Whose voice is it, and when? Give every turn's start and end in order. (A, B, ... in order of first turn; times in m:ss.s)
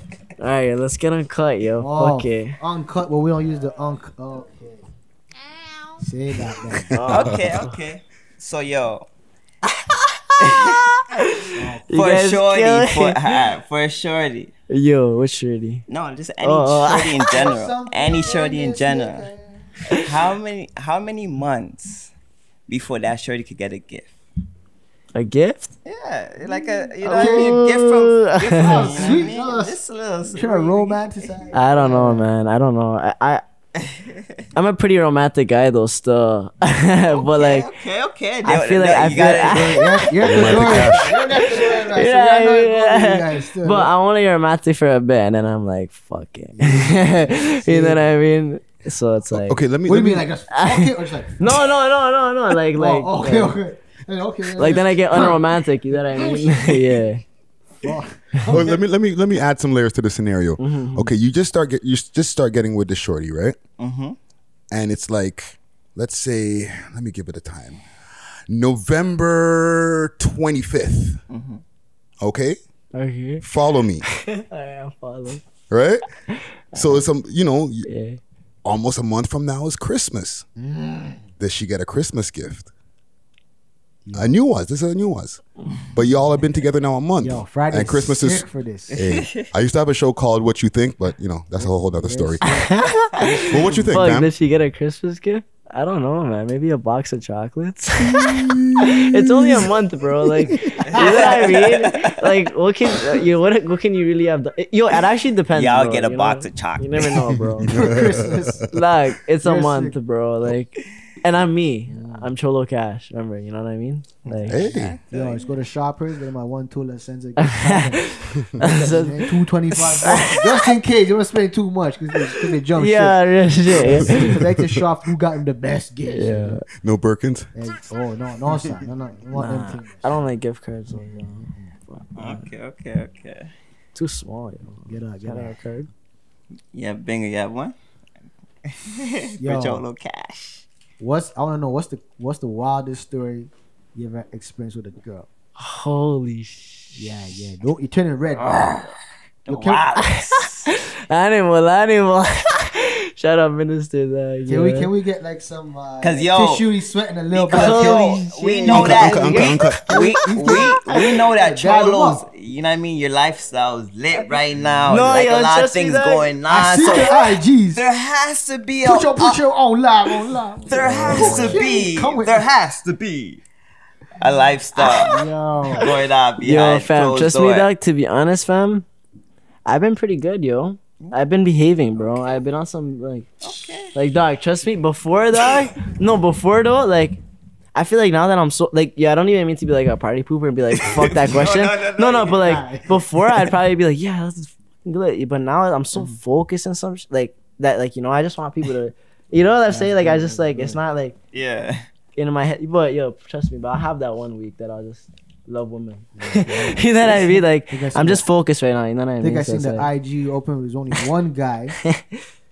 0:00.4-0:02.6 A
0:01.8-0:04.8 B
0:06.0-0:07.4 B
0:06.7-0:07.7 A
0:07.0-0:09.1 C
0:07.2-0:07.5 D
0:10.4-0:10.8 C
0:10.5-0:13.2 A
0:11.6-0:11.9 B
0:11.9-0:14.5 C
0:14.7-0:15.8 A
0:15.9-0:19.3 C
0:16.4-0:17.2 A
0:17.3-0:19.7 B
0:19.9-0:22.1 C
0:22.7-0:24.1 C
0:25.1-0:25.7 A
0:25.8-0:31.4 C
0:27.0-0:27.6 B
0:27.0-0:29.2 A
0:28.6-0:32.3 B
0:31.5-0:33.4 A
0:33.8-0:34.2 C
0:34.6-0:37.7 A
0:37.1-0:40.1 C
0:38.4-0:49.6 A
0:39.5-0:43.9 B
0:40.2-0:41.1 D
0:46.5-0:48.1 B
0:49.3-0:50.3 D
0:49.9-0:51.7 B
0:50.5-0:53.6 A
0:52.7-0:57.0 B
0:54.6-0:57.2 A
0:57.8-0:58.8 B
0:58.5-1:03.6 D
1:00.6-1:01.1 A
1:03.8-1:04.2 C
1:04.7-1:07.8 D
1:08.5-1:11.2 D
1:11.3-1:11.6 C
1:12.2-1:12.6 D
1:12.9-1:13.4 A
1:13.4-1:14.0 D
1:14.1-1:15.4 A
1:15.7-1:17.9 D
1:16.3-1:17.1 A
1:17.8-1:18.2 A
1:18.6-1:20.5 D
1:20.6-1:21.2 B
1:21.4-1:22.7 D
1:24.0-1:24.4 B
1:24.1-1:32.5 D
1:27.2-1:28.9 B
1:28.9-1:29.5 C
1:31.6-1:34.0 B
1:32.4-1:47.8 A
1:33.2-1:34.3 D
1:38.0-1:39.7 D
1:40.5-1:41.6 B
1:40.9-1:42.2 C
1:45.5-1:47.3 C
1:47.6-1:48.7 D
1:47.6-1:48.7 B
1:48.7-1:54.7 A
1:49.4-1:50.0 B
1:51.9-1:52.3 B
1:54.3-2:06.6 B
1:54.5-1:55.0 D
1:54.5-1:55.5 C
1:57.4-2:00.7 A
2:02.7-2:04.4 A
2:04.1-2:04.6 D
2:06.1-2:06.6 A
2:06.8-2:07.6 D
2:07.5-2:10.2 B
2:09.3-2:12.5 A
2:10.9-2:11.7 B
2:12.2-2:13.5 C
2:14.0-2:15.9 A
2:14.9-2:15.6 B
2:16.7-2:17.8 C
2:18.7-2:20.6 C
2:19.4-2:19.8 B
2:21.0-2:25.3 B
2:25.6-2:27.2 A
2:27.0-2:28.8 B
2:28.4-2:28.9 C
2:29.4-2:30.7 C
2:29.5-2:29.9 B
2:30.4-2:34.9 A
2:34.5-2:42.2 B
2:36.0-2:36.7 C
2:37.3-2:49.4 C
2:37.5-2:41.0 A
2:38.7-2:39.9 D
2:44.9-2:46.3 A
2:46.5-2:47.9 B
2:48.8-2:52.5 B
2:50.0-2:53.4 C
2:50.8-2:51.4 D
2:51.1-2:51.5 A
2:54.2-2:57.7 C
2:54.8-2:55.9 B
2:56.4-2:58.9 A
2:59.7-3:03.3 A
3:02.0-3:02.3 C
3:03.4-3:03.9 C
3:03.9-3:07.2 A
3:07.8-3:21.2 A
3:10.8-3:12.6 C
3:12.4-3:13.0 B
3:19.7-3:20.8 B
3:21.3-3:21.8 C
3:22.2-3:29.9 A
3:26.2-3:28.2 B
3:29.2-3:31.8 B